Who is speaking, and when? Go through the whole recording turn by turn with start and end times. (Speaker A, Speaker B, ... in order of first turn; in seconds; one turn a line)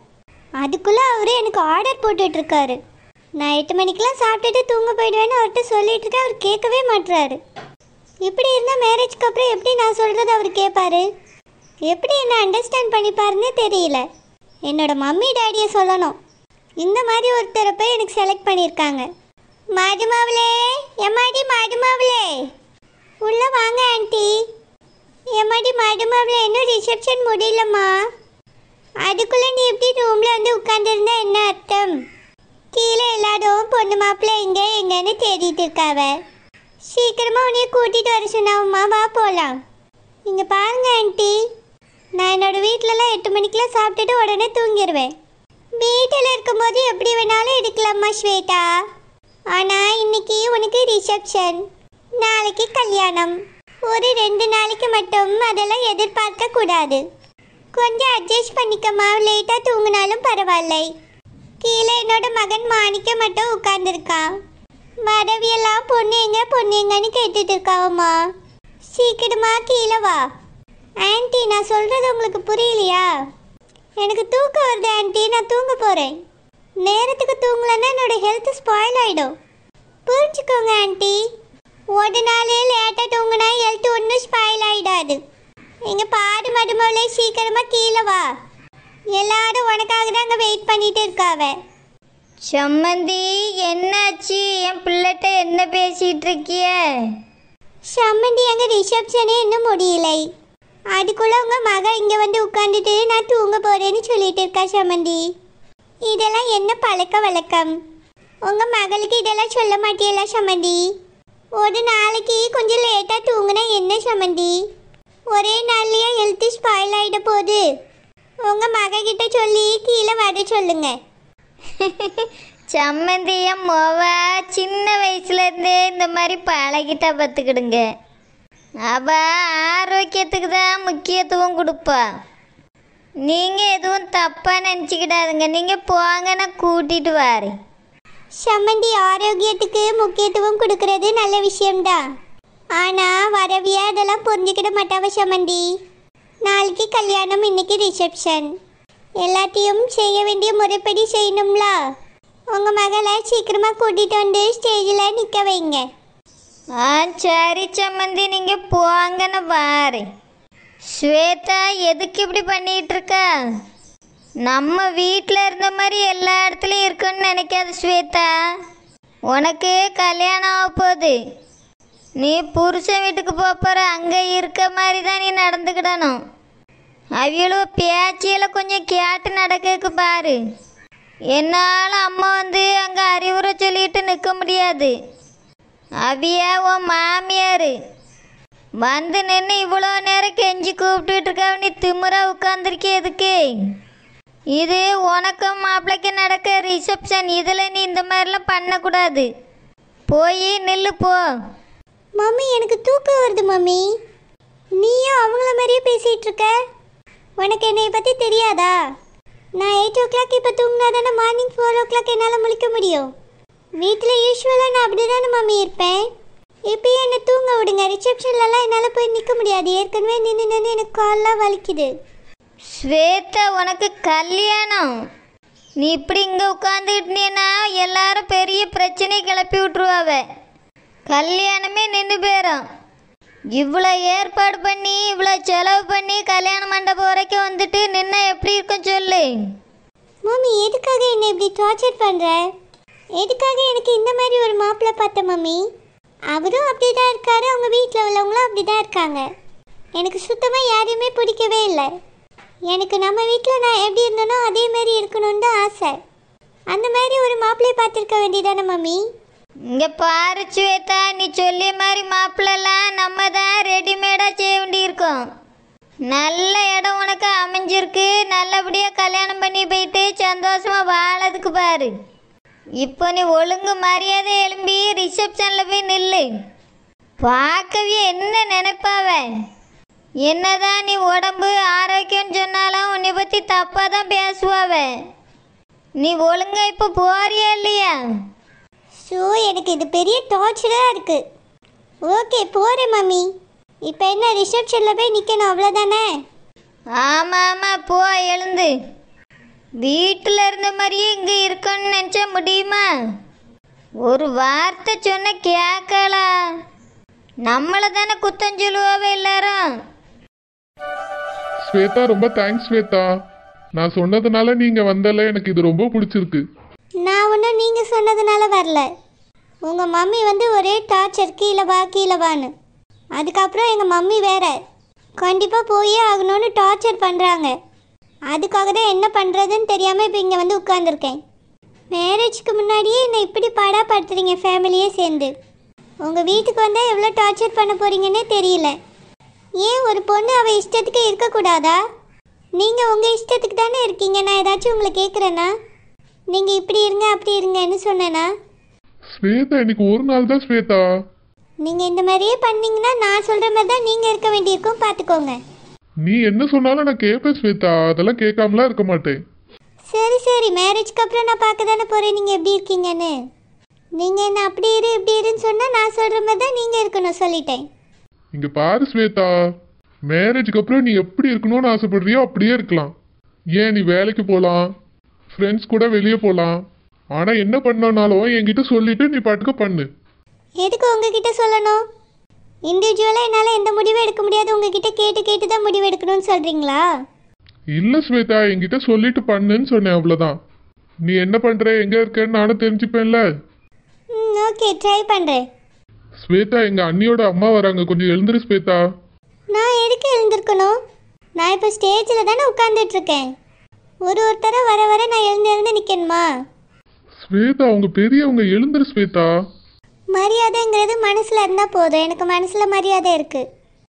Speaker A: 0.6-2.8
Speaker A: 3.4-7.4
Speaker A: 8.3-11.0
Speaker A: 11.9-14.0
Speaker A: 14.7-16.1
Speaker A: 16.8-19.1
Speaker A: 19.8-22.3
Speaker A: 23.2-24.3
Speaker A: 25.4-27.9
Speaker A: 29.1-31.9
Speaker A: 32.8-36.1
Speaker A: 36.9-39.5
Speaker A: 40.3-41.4
Speaker A: 42.2-45.1
Speaker A: 45.8-48.6
Speaker A: 49.5-51.6
Speaker A: 52.2-53.3
Speaker A: 53.9-57.0
Speaker A: 57.8-60.9
Speaker A: 61.6-64.3
Speaker A: 65.1-68.2
Speaker A: 69.0-70.2
Speaker A: 71.0-73.1
Speaker A: 74.0-76.1
Speaker A: 76.8-79.3
Speaker A: 80.1-81.2
Speaker A: 82.0-85.2
Speaker A: 85.9-88.3
Speaker A: 89.2-91.5
Speaker B: 92.5-96.7
Speaker A: 97.9-100.2
Speaker A: 101.0-105.2
Speaker A: 106.1-107.7
Speaker A: 108.5-110.8
Speaker A: 111.6-114.5
Speaker A: 115.3-117.6
Speaker A: 118.5-120.9
Speaker B: 121.8-127.8
Speaker B: 128.9-132.0
Speaker B: 133.2-137.5
Speaker A: 138.4-142.0
Speaker A: 142.8-145.6
Speaker A: 146.4-148.4
Speaker A: 149.2-151.8
Speaker A: 152.5-155.8
Speaker B: 156.8-160.0
Speaker B: 160.9-163.2
Speaker B: 164.4-168.3
Speaker B: 169.3-171.2
Speaker B: 172.2-176.2
Speaker B: 177.2-180.4
Speaker B: 181.3-184.9
Speaker B: 186.0-187.7
Speaker B: 188.8-193.4
Speaker B: 194.6-199.2
Speaker B: 200.1-201.2
Speaker A: 202.2-203.8
Speaker A: 204.8-206.5
Speaker A: 207.4-208.7
Speaker A: 209.6-213.1
Speaker A: 213.8-216.0
Speaker A: 216.7-221.9
Speaker B: 222.7-224.9
Speaker B: 225.8-230.2
Speaker B: 231.1-232.6
Speaker B: 233.6-239.3
Speaker A: 240.3-242.4
Speaker A: 243.2-245.6
Speaker A: 246.3-249.2
Speaker A: 250.0-251.9
Speaker A: 252.7-256.0
Speaker A: 256.7-259.0
Speaker B: 259.7-265.2
Speaker B: 266.1-271.9
Speaker B: 272.8-276.3
Speaker B: 277.2-279.3
Speaker B: 280.2-284.9
Speaker B: 286.0-287.9
Speaker A: 289.1-291.2
Speaker A: 292.1-293.2
Speaker A: 293.9-296.1
Speaker B: 297.0-298.7
Speaker B: 299.8-302.8
Speaker B: 304.1-306.2
Speaker B: 307.4-309.6
Speaker C: 311.6-313.1
Speaker C: 313.8-316.4
Speaker A: 317.1-318.9
Speaker A: 319.7-322.5
Speaker A: 323.2-324.6
Speaker A: 325.2-327.5
Speaker A: 328.3-331.2
Speaker A: 331.9-335.3
Speaker A: 336.1-338.7
Speaker A: 339.6-341.8
Speaker A: 342.6-345.5
Speaker A: 346.3-348.3
Speaker C: 349.2-350.8
Speaker A: 351.6-355.4
Speaker C: 356.1-359.2
Speaker A: 359.9-363.1
Speaker A: 364.0-367.6
Speaker C: 368.3-369.3
Speaker C: 370.1-372.9
Speaker C: 373.6-374.6
Speaker C: 375.4-376.6
Speaker C: 377.2-379.9
Speaker A: 380.6-381.8
Speaker A: 382.7-386.9
Speaker C: 387.8-390.4
Speaker C: 391.1-393.2
Speaker A: 394.1-395.4
Speaker C: 396.2-398.8
Speaker A: 399.5-400.8
Speaker A: 401.4-403.3
Speaker A: 404.1-406.3
Speaker C: 407.2-409.3
Speaker A: 410.2-413.4